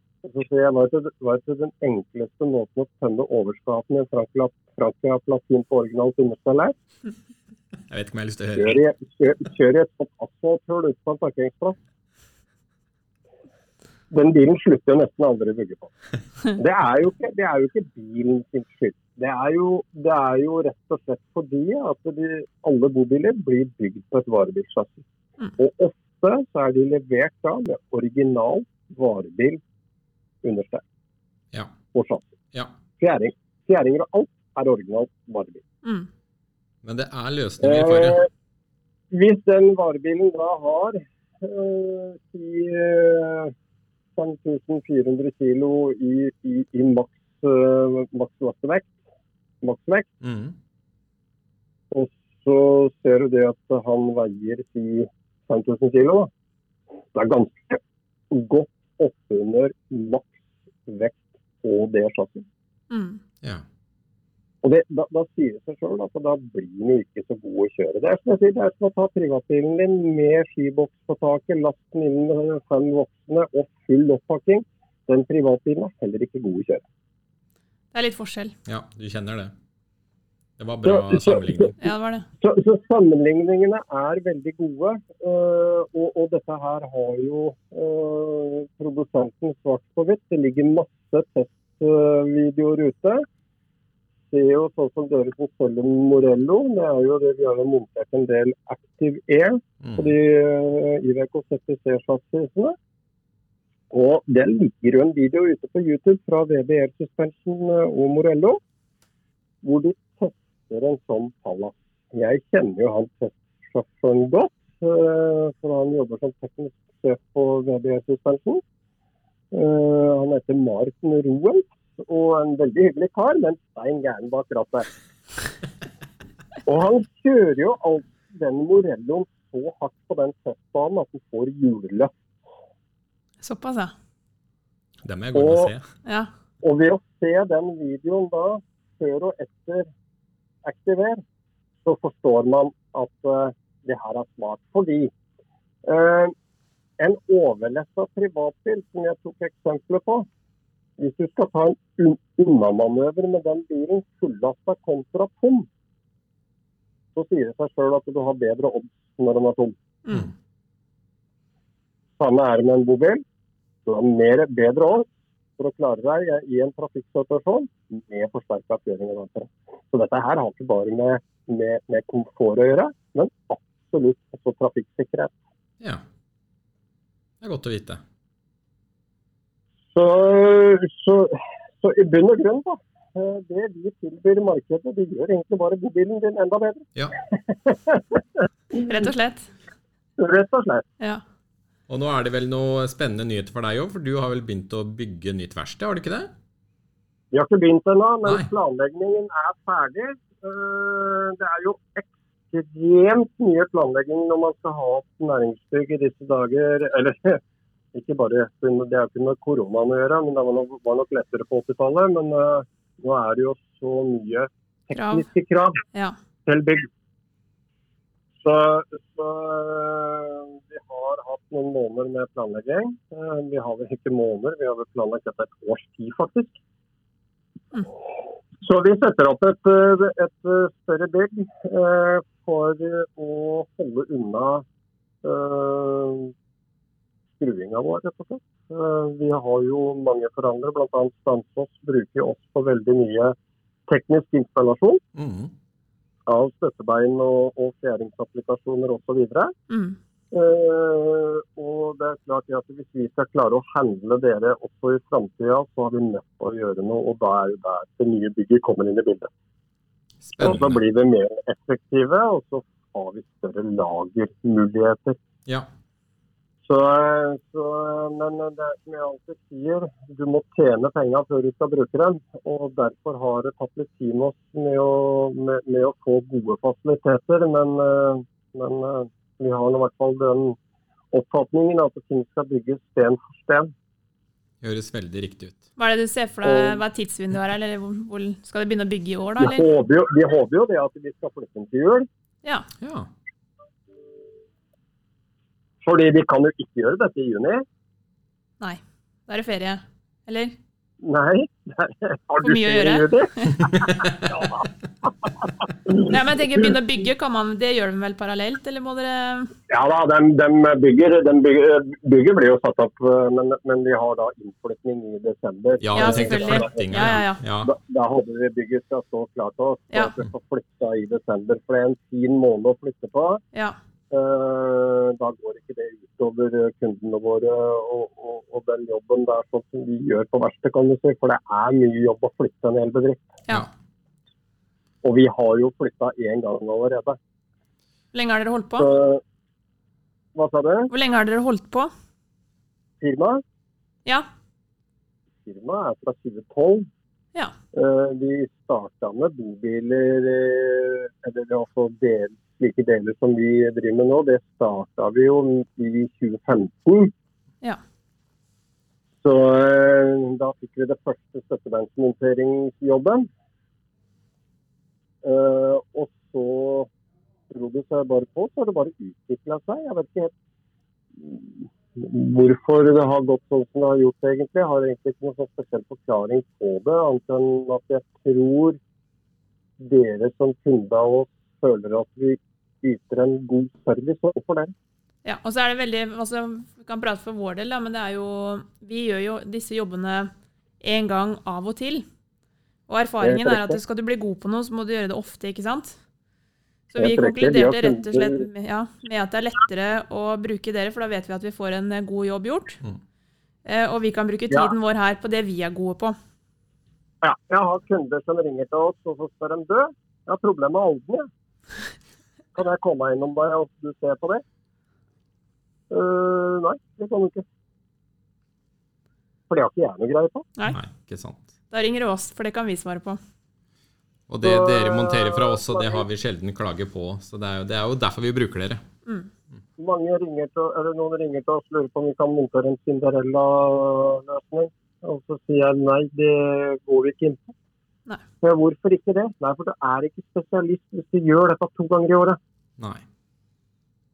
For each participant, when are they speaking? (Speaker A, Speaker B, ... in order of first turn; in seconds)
Speaker A: 0.2-6.8, 8.6-11.8, 14.1-15.9, 16.5-25.0, 25.6-29.6, 30.4-30.8, 31.9-32.3, 33.0-35.6, 37.6-38.3, 39.1-43.5, 44.2-49.0, 49.6-50.1, 51.9-56.3, 57.1-57.8, 58.3-62.5, 64.6-76.8, 80.8-81.7, 82.4-93.2, 94.3-102.8, 103.9-108.6, 109.6-118.6, 119.5-124.9, 126.7-132.2, 135.3-135.7, 136.6-139.9, 140.6-141.2, 141.8-145.1, 145.8-146.3, 147.0-150.3, 151.0-155.7, 157.1-159.8, 162.2-163.2, 163.9-175.4, 179.9-188.2, 190.2-190.9, 197.3-207.4, 207.9-215.8, 216.5-216.9, 218.4-226.6, 228.6-234.7, 235.2-236.3, 237.4-243.3, 243.9-245.0, 246.3-249.5, 250.3-259.3, 260.4-265.2, 266.6-280.6, 281.1-283.7, 286.4-286.8, 289.4-292.1, 295.8-297.6, 301.0-306.7, 309.7-323.4, 324.1-333.3, 335.0-337.2, 338.8-339.2, 340.4-340.9, 343.0-343.4, 345.4-346.9, 347.7-357.1, 359.2-363.3, 365.2-366.9, 367.5-370.3, 371.2-378.8, 379.8-384.7, 393.2-393.8, 396.9-398.4, 407.2-411.3, 412.6-414.4, 415.9-417.4, 419.5-420.4, 424.4-426.0, 429.8-437.5, 438.4-442.4
Speaker B: 7.9-8.8, 36.8-38.2, 50.2-50.5, 78.7-79.5, 80.6-81.8, 99.8-100.1, 135.1-135.8, 177.4-178.0, 191.9-196.3, 245.2-245.5, 260.2-260.8, 284.6-285.6, 292.8-293.1, 315.8-317.7, 420.7-421.5, 424.3-428.8
Speaker C: 62.9-63.2, 77.9-78.5, 81.8-82.2, 133.4-133.9, 188.7-189.5, 214.9-215.3, 249.7-250.0, 285.8-289.7, 298.6-300.6, 302.4-303.7, 305.9-309.5, 315.9-317.4, 338.1-338.9, 340.9-341.9, 385.2-390.3, 390.8-392.1, 392.9-396.0, 396.9-402.8, 403.6-406.1, 421.7-423.2